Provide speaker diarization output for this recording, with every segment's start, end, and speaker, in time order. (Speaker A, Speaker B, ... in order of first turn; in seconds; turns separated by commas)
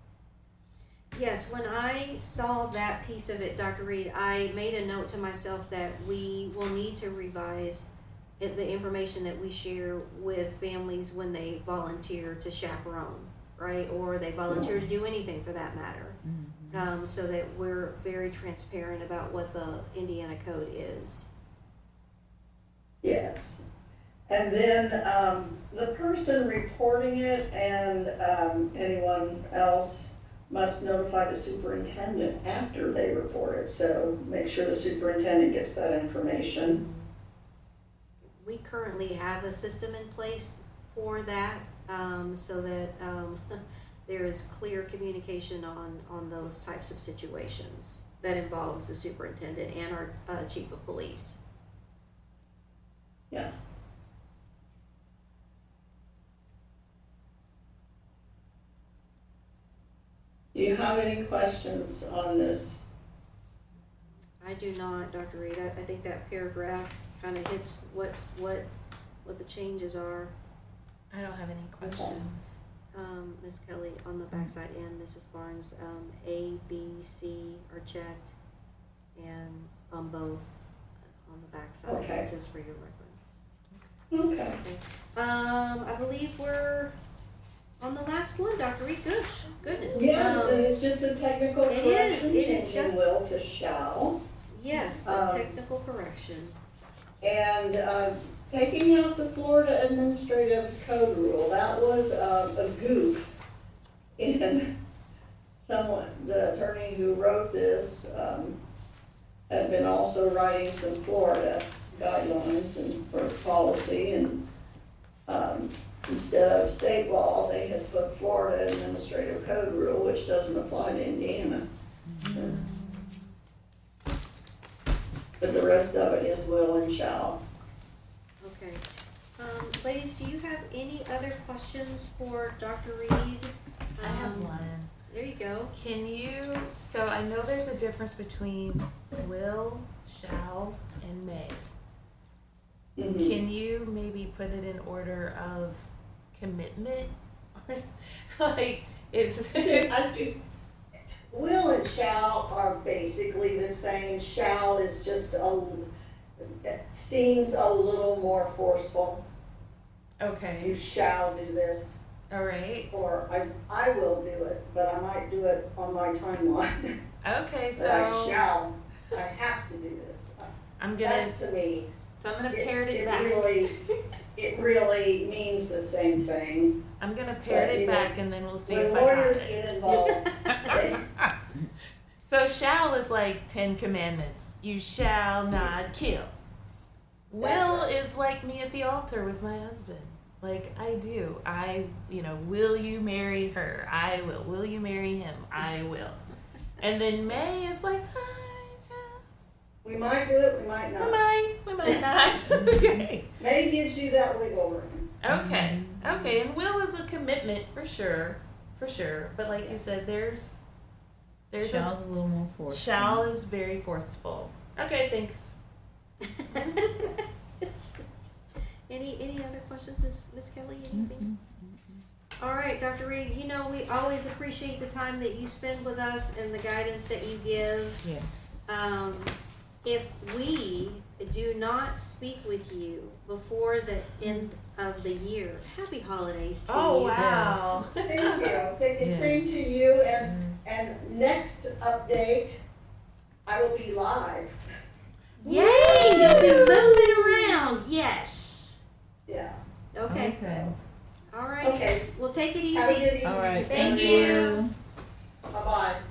Speaker A: 1.1-16.2, Speaker B: 16.2-16.9, Speaker A: 16.7-21.3, Speaker C: 23.0-23.6, Speaker C: 24.3-36.8, Speaker A: 36.7-37.1, Speaker A: 38.4-51.4, Speaker C: 60.5-62.8, Speaker A: 64.4-68.7, Speaker A: 69.2-70.3, Speaker D: 71.1-72.6, Speaker C: 71.8-72.2, Speaker A: 72.9-78.3, Speaker A: 79.1-83.4, Speaker C: 81.9-82.2, Speaker C: 84.1-84.6, Speaker A: 84.6-86.9, Speaker A: 87.8-90.7, Speaker C: 89.9-94.2, Speaker A: 91.7-93.1, Speaker A: 94.3-96.6, Speaker C: 95.0-95.6, Speaker C: 97.2-103.4, Speaker C: 104.2-104.7, Speaker C: 105.6-108.6, Speaker C: 109.5-114.4, Speaker C: 115.3-121.7, Speaker B: 122.1-122.9, Speaker D: 122.2-123.0, Speaker C: 125.4-127.4, Speaker A: 128.4-128.8, Speaker A: 129.4-135.7, Speaker D: 134.0-134.9, Speaker D: 135.7-141.7, Speaker C: 143.0-143.4, Speaker D: 143.2-149.9, Speaker C: 149.6-150.4, Speaker C: 151.3-155.9, Speaker C: 156.4-159.2, Speaker D: 160.2-160.8, Speaker C: 160.6-162.0, Speaker D: 162.3-162.9, Speaker C: 162.9-166.9, Speaker D: 167.2-168.4, Speaker C: 167.8-171.9, Speaker D: 170.8-171.4, Speaker D: 172.2-174.0, Speaker C: 172.5-173.7, Speaker C: 174.4-176.8, Speaker D: 177.0-179.6, Speaker C: 177.5-178.1, Speaker C: 178.7-181.0, Speaker A: 179.9-180.8, Speaker D: 182.2-186.3, Speaker D: 187.3-196.2, Speaker C: 187.4-187.9, Speaker D: 196.8-199.2, Speaker C: 199.8-201.2, Speaker D: 201.0-203.3, Speaker B: 202.5-203.1, Speaker C: 203.4-205.1, Speaker D: 205.2-210.6, Speaker B: 205.3-206.4, Speaker D: 211.5-211.9, Speaker B: 211.6-213.2, Speaker D: 212.7-215.6, Speaker A: 216.2-218.3, Speaker A: 218.9-221.3, Speaker B: 220.9-222.1, Speaker A: 222.4-228.1, Speaker B: 228.1-228.6, Speaker A: 228.7-237.2, Speaker D: 236.7-238.6, Speaker B: 237.1-237.9, Speaker C: 238.0-242.6, Speaker B: 239.0-239.6, Speaker B: 240.2-240.6, Speaker C: 243.5-244.6, Speaker A: 245.4-248.8, Speaker C: 245.4-246.5, Speaker D: 245.7-246.8, Speaker B: 246.2-246.8, Speaker C: 249.3-249.6, Speaker A: 249.9-250.8, Speaker B: 250.1-250.8, Speaker A: 251.3-254.6, Speaker C: 251.6-252.1, Speaker C: 252.7-254.5, Speaker B: 253.2-254.7, Speaker C: 255.5-256.0